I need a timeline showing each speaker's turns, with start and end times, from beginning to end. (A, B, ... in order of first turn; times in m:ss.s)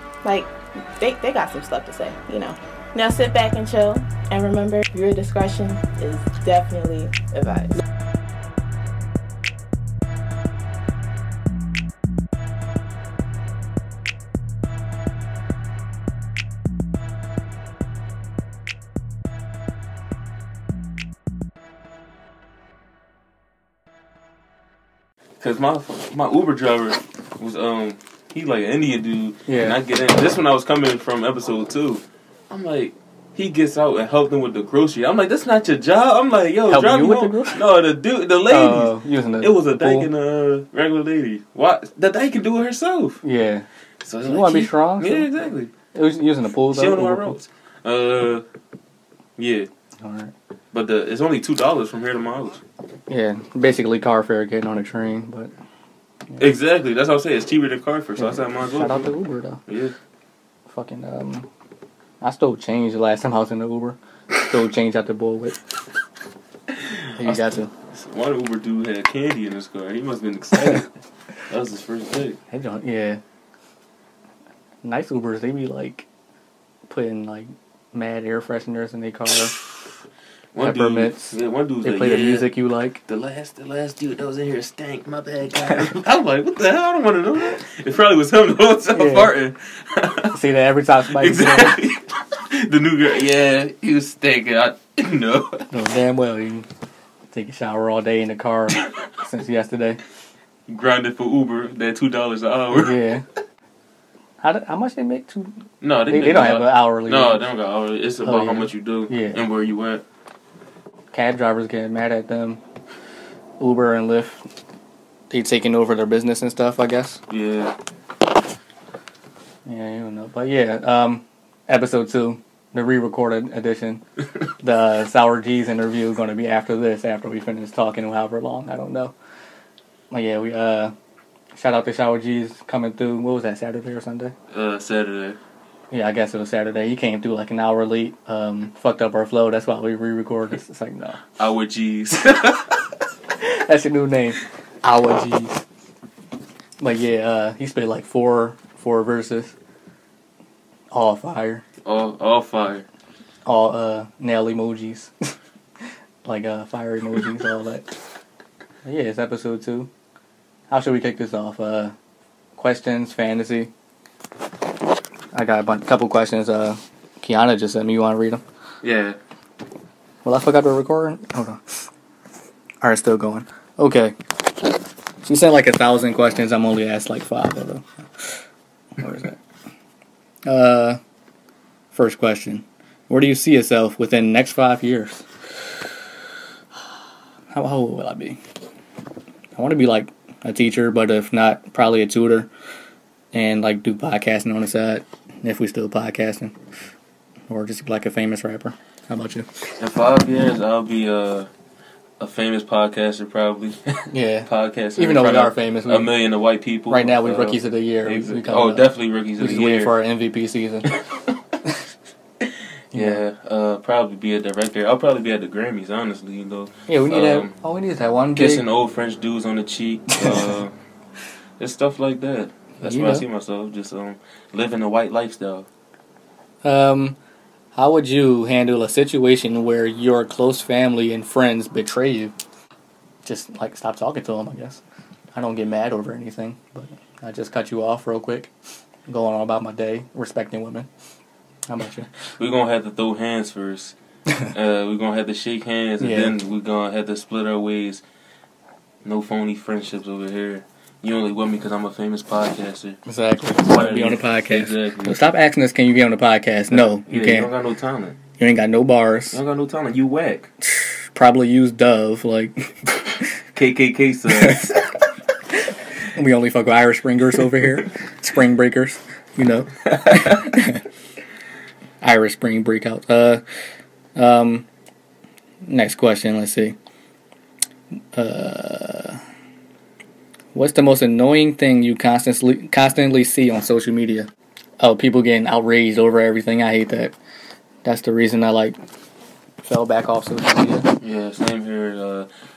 0:00.2-0:07.8 A
0:25.4-0:43.2 B
0:29.5-0:29.8 C
0:36.7-0:37.6 C
0:38.5-0:40.1 C
0:43.2-0:43.7 C
0:44.0-0:45.7 B
0:44.2-0:45.3 C
0:45.9-0:47.4 C
0:46.7-0:48.4 B
0:49.4-0:49.7 B
0:50.0-0:50.3 C
0:50.7-0:52.6 B
0:53.1-0:55.5 C
0:56.4-0:59.1 B
0:58.2-0:59.6 C
0:59.7-1:00.0 B
1:00.7-1:01.5 C
1:02.2-1:05.6 C
1:06.7-1:10.9 B
1:07.2-1:07.7 C
1:11.5-1:12.4 B
1:12.5-1:13.2 C
1:14.8-1:16.1 C
1:16.9-1:19.6 C
1:20.5-1:22.5 B
1:20.6-1:23.0 C
1:23.1-1:30.4 B
1:28.9-1:29.3 C
1:30.3-1:31.8 C
1:31.1-1:35.7 B
1:35.7-1:36.7 C
1:37.3-1:40.0 C
1:40.7-1:43.0 B
1:42.7-1:43.2 C
1:44.4-1:45.5 C
1:45.8-1:50.0 B
1:46.1-1:47.4 C
1:48.2-1:49.4 C
1:51.1-1:52.6 C
1:53.6-1:54.4 C
1:55.3-1:57.2 C
1:57.3-1:57.8 B
1:59.7-2:04.0 C
2:04.6-2:09.1 C
2:10.1-2:10.9 C
2:11.6-2:14.3 C
2:14.5-2:15.4 B
2:15.9-2:21.2 C
2:21.4-2:22.8 B
2:23.4-2:25.6 C
2:26.8-2:29.6 C
2:30.9-2:31.6 C
2:31.8-2:32.9 B
2:33.5-2:35.3 C
2:36.2-2:37.9 C
2:38.8-2:39.9 C
2:40.7-2:41.9 C
2:42.6-2:43.7 C
2:45.3-2:48.4 C
2:48.8-2:49.2 B
2:50.2-2:51.8 C
2:52.8-2:54.2 C
2:55.2-2:58.3 C
2:59.0-2:59.4 C
3:00.4-3:01.0 C
3:01.9-3:05.2 C
3:07.5-3:08.4 C
3:09.6-3:12.5 C
3:13.3-3:16.6 C
3:17.5-3:19.5 C
3:19.8-3:21.5 B
3:22.2-3:30.0 B
3:24.1-3:26.1 C
3:26.9-3:30.9 C
3:32.9-3:33.2 C
3:32.9-3:37.5 B
3:36.9-3:38.7 C
3:38.4-3:40.7 B
3:40.2-3:40.5 C
3:41.6-3:45.7 B
3:42.8-3:43.3 C
3:46.6-3:47.2 C
3:47.7-3:52.3 C
3:53.2-3:54.8 C
3:55.3-3:58.5 C
3:59.1-4:00.9 C
4:01.7-4:02.1 C
4:02.4-4:04.0 B
4:04.5-4:08.0 B
4:06.0-4:06.4 C
4:09.0-4:13.0 B
4:13.1-4:17.5 C
4:13.6-4:15.2 B
4:16.7-4:18.2 B
4:18.4-4:19.4 C
4:19.3-4:20.5 B
4:20.6-4:22.8 C
4:23.5-4:24.8 B
4:24.3-4:24.7 C
4:26.1-4:30.8 C
4:32.0-4:33.4 C
4:34.2-4:34.7 C
4:35.6-4:36.8 C
4:38.2-4:39.2 C
4:40.5-4:47.2 C
4:47.8-4:48.8 C
4:49.6-4:50.9 C
4:51.0-4:52.3 B